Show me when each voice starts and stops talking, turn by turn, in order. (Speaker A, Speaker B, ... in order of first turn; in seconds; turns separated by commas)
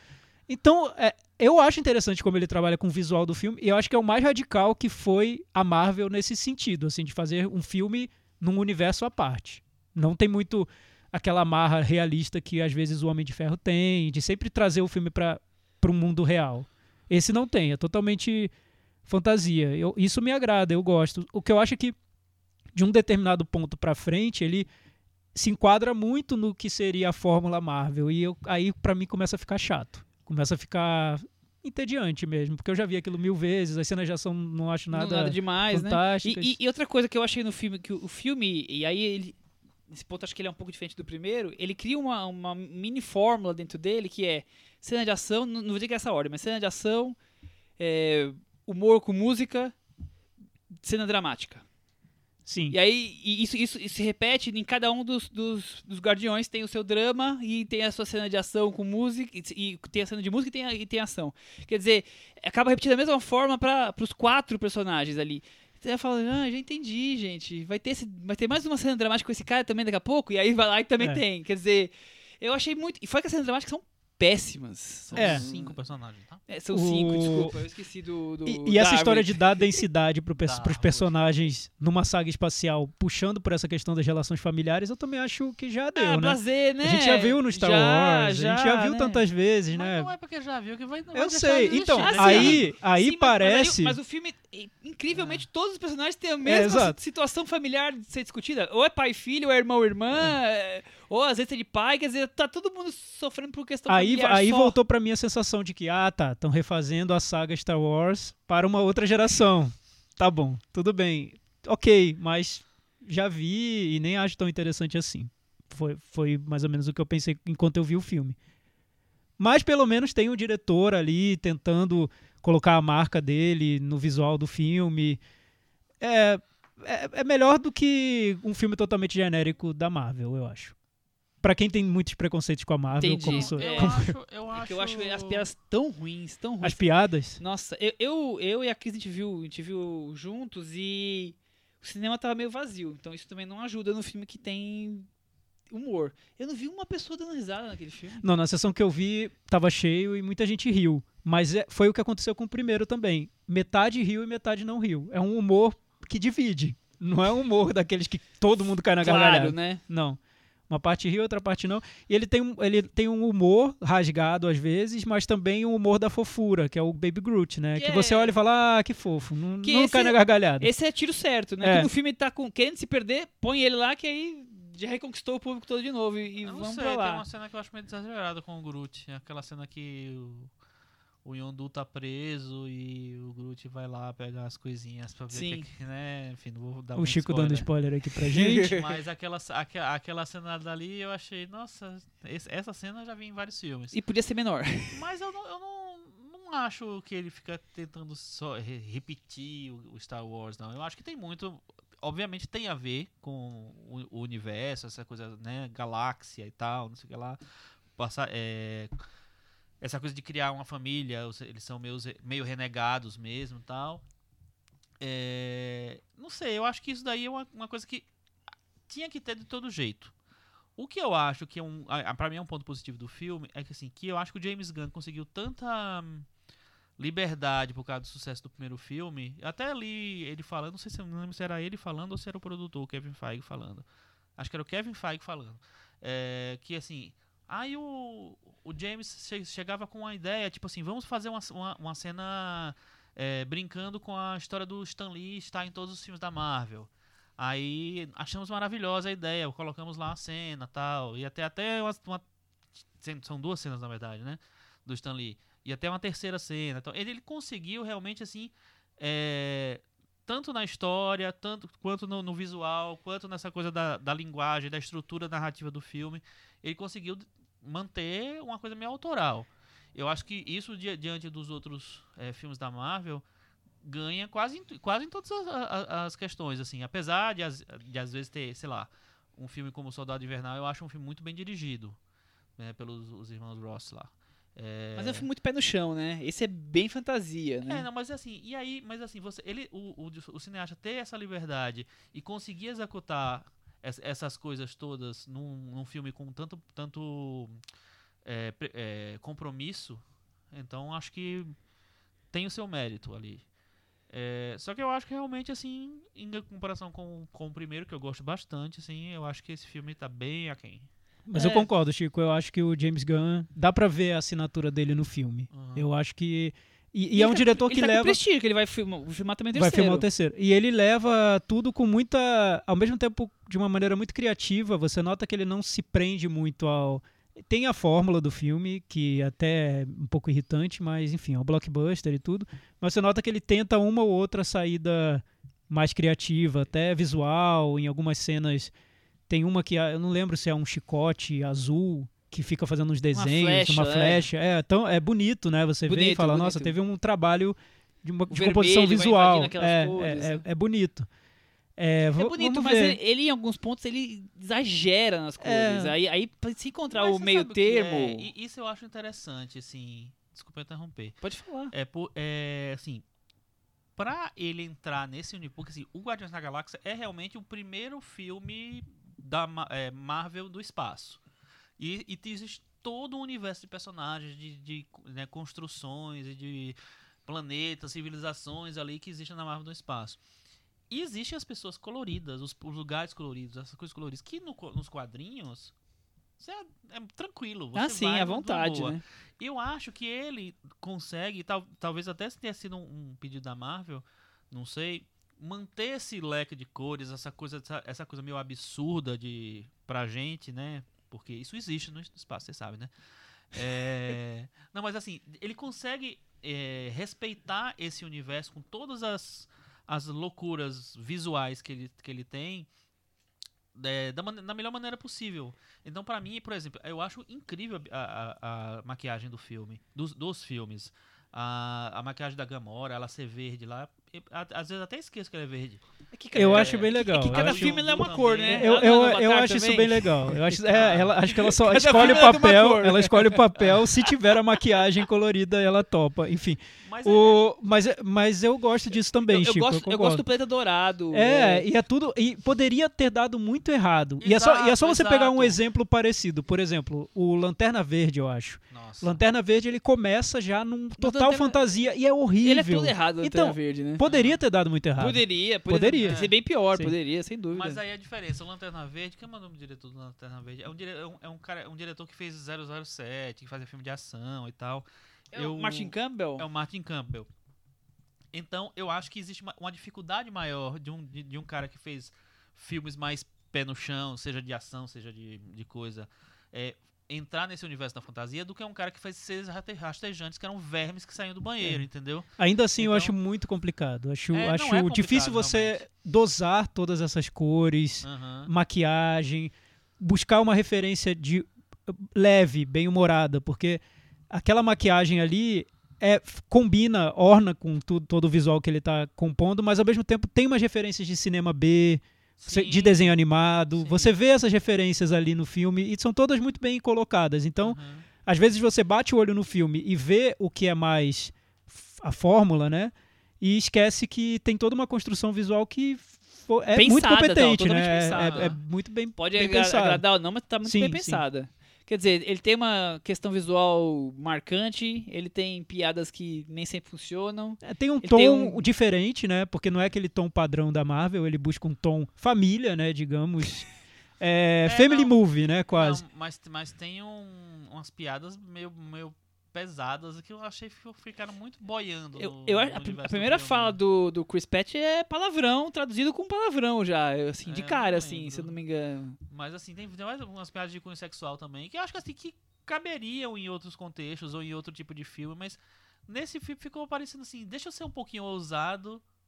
Speaker A: 0.5-18.5, Speaker A: 19.1-21.9, Speaker A: 22.7-24.7, Speaker A: 25.3-36.5, Speaker B: 34.9-39.4, Speaker B: 39.9-47.2, Speaker B: 47.8-49.7, Speaker B: 50.8-51.6, Speaker A: 52.5-52.8, Speaker B: 52.7-75.8, Speaker C: 75.1-76.4, Speaker A: 75.2-75.4, Speaker B: 76.5-79.8, Speaker A: 76.7-77.5, Speaker A: 78.4-90.1, Speaker C: 80.4-81.1, Speaker B: 85.9-89.2, Speaker C: 89.7-92.7, Speaker A: 91.1-94.0, Speaker B: 92.0-104.8, Speaker C: 95.1-95.4, Speaker A: 96.4-97.0, Speaker A: 103.9-118.4, Speaker A: 119.4-125.2, Speaker A: 126.0-130.7, Speaker A: 131.4-134.1, Speaker B: 133.0-134.0, Speaker C: 133.2-135.5, Speaker B: 134.5-136.8, Speaker A: 136.6-137.4, Speaker B: 137.4-145.1, Speaker B: 145.7-148.2, Speaker A: 148.2-170.7, Speaker B: 159.0-159.8, Speaker B: 167.7-168.3, Speaker B: 169.6-177.2, Speaker A: 171.6-171.9, Speaker C: 176.4-180.5, Speaker C: 181.2-187.7, Speaker B: 185.3-185.7, Speaker A: 186.9-188.7, Speaker B: 188.3-188.8, Speaker C: 188.5-193.9, Speaker B: 193.9-195.0, Speaker C: 194.9-207.4, Speaker C: 208.0-208.9, Speaker C: 209.8-214.0, Speaker C: 215.0-218.1, Speaker C: 218.9-220.1, Speaker C: 220.8-226.3, Speaker C: 227.0-233.8, Speaker C: 234.4-252.2, Speaker C: 253.0-273.2, Speaker C: 273.8-282.0, Speaker C: 282.6-285.3, Speaker B: 285.0-287.8, Speaker C: 287.6-297.6, Speaker C: 298.2-301.5, Speaker C: 302.3-303.4, Speaker C: 304.1-310.9, Speaker A: 311.3-318.2, Speaker B: 311.3-311.7, Speaker C: 315.5-315.9, Speaker B: 317.1-320.1, Speaker A: 319.5-338.7, Speaker A: 339.3-351.1, Speaker B: 343.1-344.2, Speaker B: 345.9-346.8, Speaker B: 348.3-350.4, Speaker A: 351.8-353.0, Speaker B: 352.2-358.3, Speaker A: 355.4-355.9, Speaker C: 356.9-361.2, Speaker B: 361.2-361.7, Speaker C: 361.7-363.0, Speaker C: 364.0-371.2, Speaker C: 371.8-380.2, Speaker C: 380.9-385.7, Speaker C: 386.4-402.9, Speaker B: 387.7-389.0, Speaker C: 403.5-412.7, Speaker C: 413.7-425.8, Speaker B: 426.1-433.4, Speaker C: 426.3-428.7, Speaker A: 426.3-440.2, Speaker C: 430.7-431.1, Speaker C: 431.9-432.4, Speaker C: 433.6-433.8, Speaker C: 436.8-437.5, Speaker B: 439.2-441.6, Speaker A: 441.1-456.9, Speaker C: 444.2-445.6, Speaker C: 448.7-449.2, Speaker B: 451.0-451.6, Speaker B: 452.4-454.0, Speaker C: 454.0-454.4, Speaker B: 455.0-457.8, Speaker C: 456.0-456.3, Speaker C: 457.5-467.3, Speaker B: 465.3-466.4, Speaker C: 468.3-483.1, Speaker A: 482.4-520.0, Speaker C: 484.3-485.8, Speaker C: 488.0-488.5, Speaker C: 502.4-503.1, Speaker C: 503.7-504.1, Speaker C: 507.6-508.1, Speaker B: 516.7-518.5, Speaker C: 518.2-518.5, Speaker B: 519.2-528.6, Speaker A: 520.6-521.2, Speaker A: 527.6-533.7, Speaker A: 534.2-536.0, Speaker C: 534.6-535.2, Speaker C: 535.8-543.8, Speaker B: 542.2-549.2, Speaker C: 547.5-548.5, Speaker C: 549.3-559.0